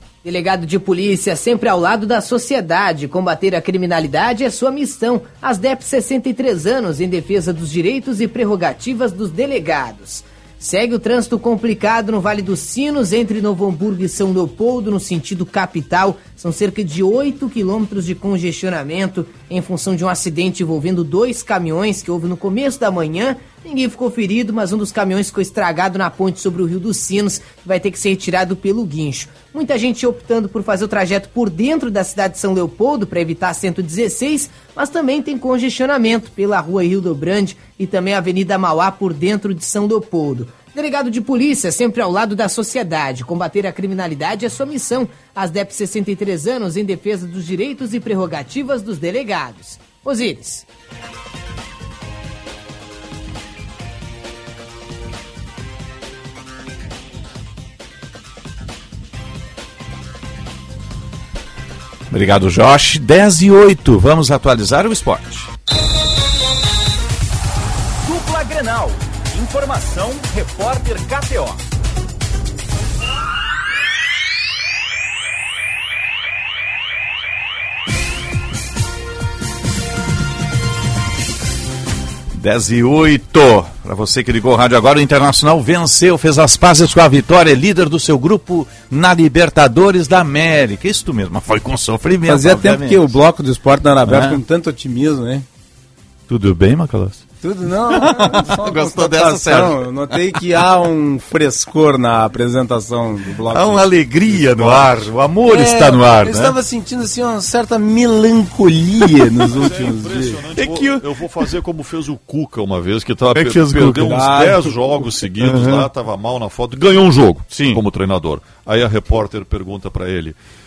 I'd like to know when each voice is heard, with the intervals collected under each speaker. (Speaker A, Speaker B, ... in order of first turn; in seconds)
Speaker A: 0.2-50.6
Speaker B: 62.1-65.5, 82.3-93.1, 94.0-94.4, 96.3-97.2, 97.9-99.8, 103.5-106.5, 109.1-109.5, 113.3-114.4, 115.4-115.9, 117.5-117.8
Speaker C: 69.5-71.5
Speaker D: 92.3-95.5, 97.4-110.9, 114.1-114.6
Speaker E: 109.5-120.3